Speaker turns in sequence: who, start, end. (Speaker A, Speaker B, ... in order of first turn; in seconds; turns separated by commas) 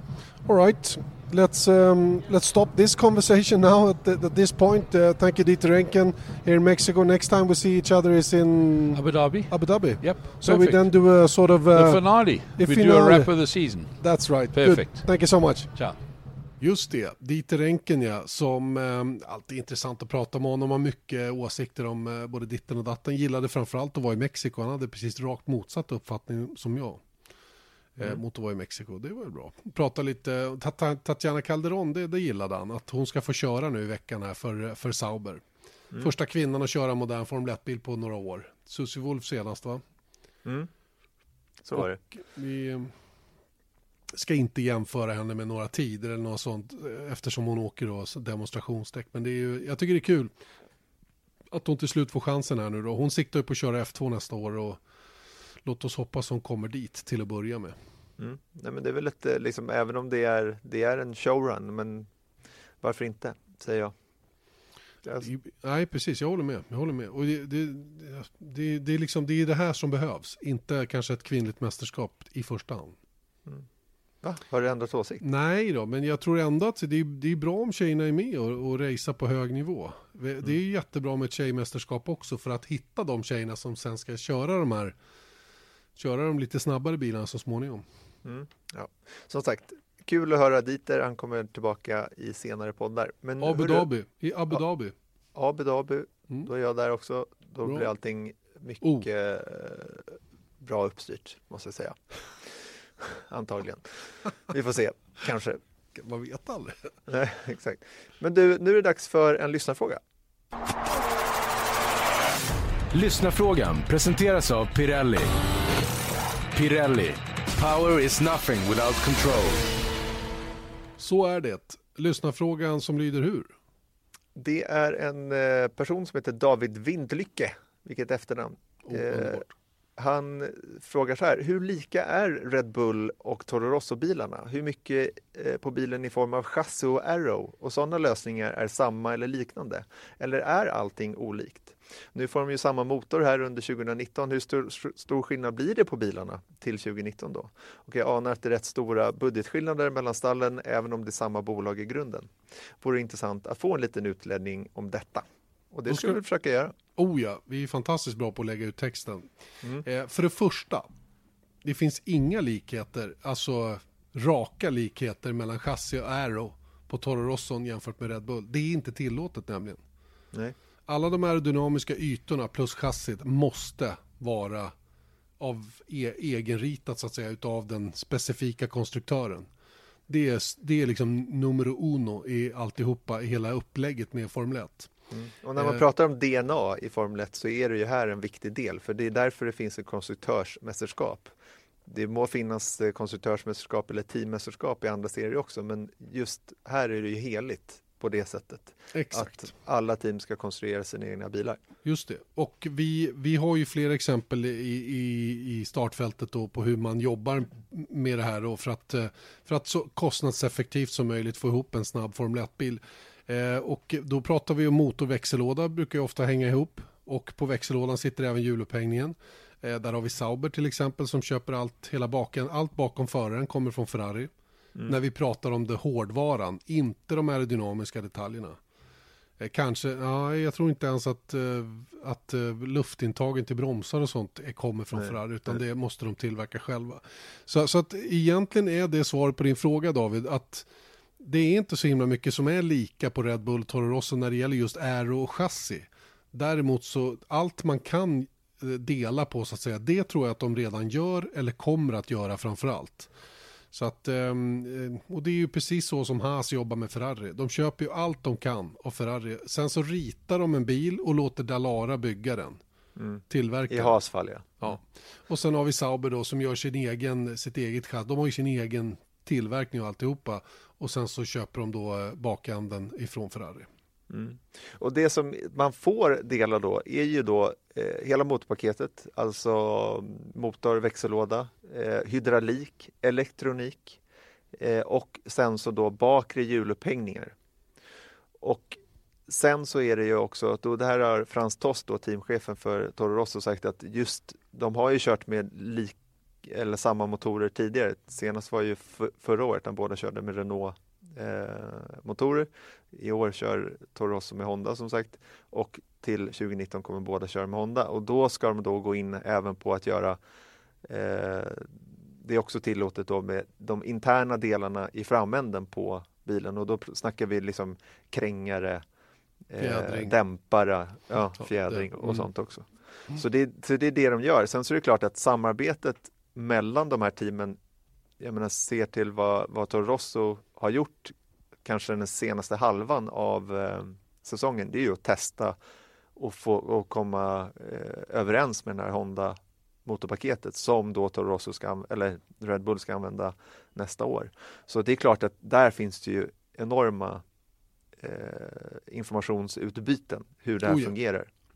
Speaker A: 0.5-13.3, Speaker B: 8.9-10.9, Speaker B: 11.7-14.0, Speaker A: 14.0-15.7, Speaker B: 14.5-15.1, Speaker A: 16.6-27.0, Speaker A: 28.0-35.4, Speaker A: 36.0-39.8, Speaker C: 41.6-42.0, Speaker A: 41.7-42.9, Speaker A: 44.1-50.3, Speaker A: 51.5-54.8, Speaker A: 55.6-57.8, Speaker C: 58.2-62.1, Speaker C: 62.8-63.9, Speaker A: 65.2-73.0, Speaker C: 74.2-75.2, Speaker A: 75.2-85.0, Speaker A: 86.0-87.8, Speaker C: 88.2-93.9, Speaker A: 93.4-94.9, Speaker C: 95.3-105.6, Speaker A: 98.8-99.1, Speaker A: 106.0-106.9, Speaker C: 107.1-110.0, Speaker D: 112.9-115.3, Speaker D: 116.5-119.7, Speaker A: 121.0-123.5, Speaker C: 124.4-156.7, Speaker A: 128.9-129.5, Speaker A: 155.9-156.2, Speaker A: 157.0-159.3, Speaker A: 159.8-160.9, Speaker A: 161.6-169.8, Speaker A: 170.9-174.7, Speaker A: 175.4-179.5, Speaker A: 180.1-184.9, Speaker C: 185.1-191.3, Speaker A: 185.6-185.8, Speaker C: 191.9-201.6, Speaker A: 198.9-199.5, Speaker A: 201.8-224.3, Speaker A: 224.9-228.6, Speaker A: 229.4-240.7, Speaker C: 234.9-235.6, Speaker A: 241.2-253.1, Speaker A: 253.7-262.6, Speaker C: 263.0-264.7, Speaker A: 263.3-264.0, Speaker A: 264.6-273.7, Speaker C: 274.1-284.0, Speaker C: 284.6-287.4, Speaker C: 288.4-310.2, Speaker C: 310.9-318.8, Speaker C: 319.5-327.6, Speaker A: 319.6-320.1, Speaker A: 321.4-322.3, Speaker C: 328.2-335.6, Speaker C: 336.2-347.2, Speaker C: 348.0-351.3, Speaker A: 350.6-350.9